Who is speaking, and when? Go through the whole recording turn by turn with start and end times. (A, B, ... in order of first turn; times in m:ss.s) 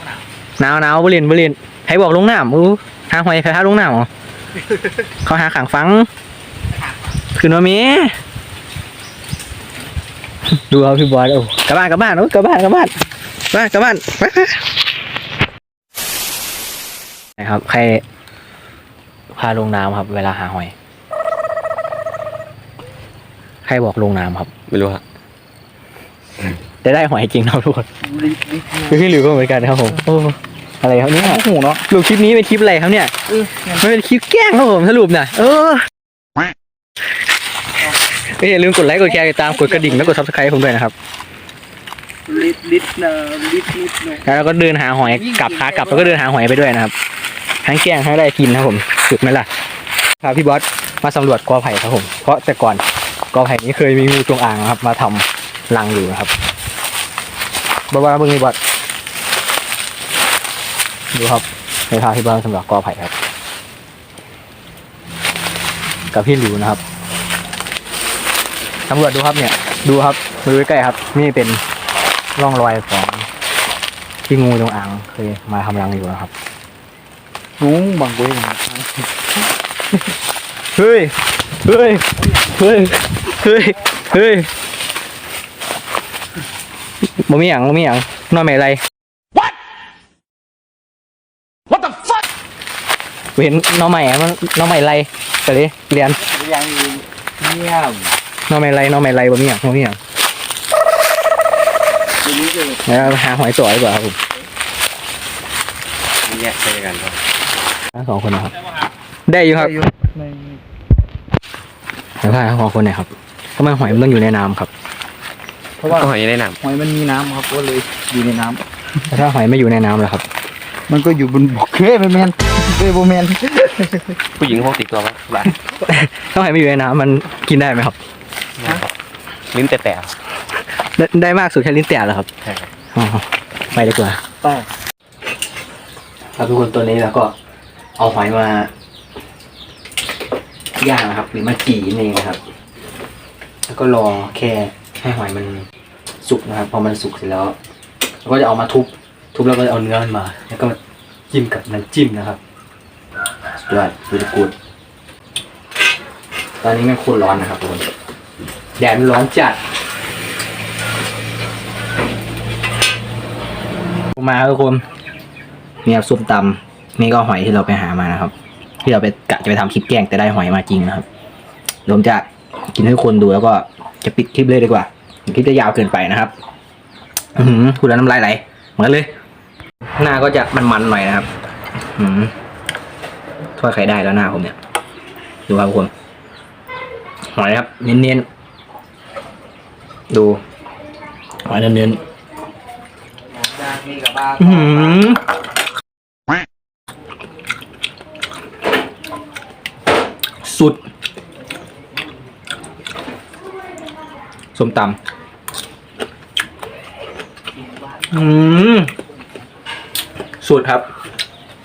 0:00.6-0:04.1 A
0:05.1-0:06.1 A
0:07.2-0:08.2 A
0:10.5-0:13.0 A
0:13.5-0:14.7 A
0:17.4-0:18.0 A
0:19.3-0:20.7 A
0:23.6-0:24.5 A
0:24.7-0:25.0 B
0:26.8-0:27.9 A
0:28.0-0:29.1 C
0:28.9-0:33.1 A
0:31.2-0:31.8 C
0:33.3-0:33.8 C
0:33.7-0:35.9 A
0:38.3-0:40.9 A
0:39.2-0:40.1 C
0:42.3-0:44.2 C
0:44.2-0:46.9 A
0:45.1-0:46.2 C
0:47.6-0:49.5 A
0:50.2-0:56.3 A
0:57.9-0:58.6 A
1:01.1-1:03.1 A
1:06.1-1:06.8 A
1:08.9-1:11.6 A
1:12.4-1:13.3 A
1:14.3-1:16.3 A
1:17.6-1:19.1 C
1:20.8-1:24.5 A
1:27.0-1:28.8 A
1:33.4-1:36.3 A
1:36.2-1:37.0 C
1:37.4-1:38.1 B
1:38.5-1:40.0 A
1:42.2-1:42.8 C
1:42.8-1:44.2 A
1:46.2-1:47.2 B
1:47.9-1:48.6 A
1:49.3-1:49.8 A
1:49.6-1:50.6 C
1:52.2-1:54.7 A
1:55.8-1:58.6 C
1:55.8-1:56.6 B
1:59.0-2:00.2 A
2:00.9-2:04.2 C
2:04.4-2:05.6 B
2:05.8-2:08.0 A
2:08.6-2:08.9 B
2:09.5-2:10.2 B
2:10.9-2:12.3 A
2:12.9-2:14.2 A
2:16.4-2:17.3 A
2:18.0-2:18.7 A
2:20.8-2:22.4 A
2:23.7-2:25.7 A
2:26.2-2:27.6 A
2:28.2-2:30.8 A
2:31.3-2:32.4 A
2:33.6-2:34.5 A
2:36.6-2:37.9 A
2:38.8-2:39.6 A
2:44.2-2:44.8 A
2:45.8-2:48.3 A
2:48.8-2:51.0 A
2:51.9-2:56.3 A
2:57.4-2:59.1 A
3:00.0-3:01.3 A
3:02.0-3:02.3 A
3:03.6-3:04.6 A
3:05.5-3:05.9 A
3:07.3-3:08.2 A
3:10.1-3:10.4 A
3:11.4-3:12.0 A
3:13.4-3:14.9 C
3:14.4-3:15.2 A
3:20.4-3:20.8 A
3:24.6-3:25.0 A
3:28.1-3:28.9 A
3:30.4-3:30.9 A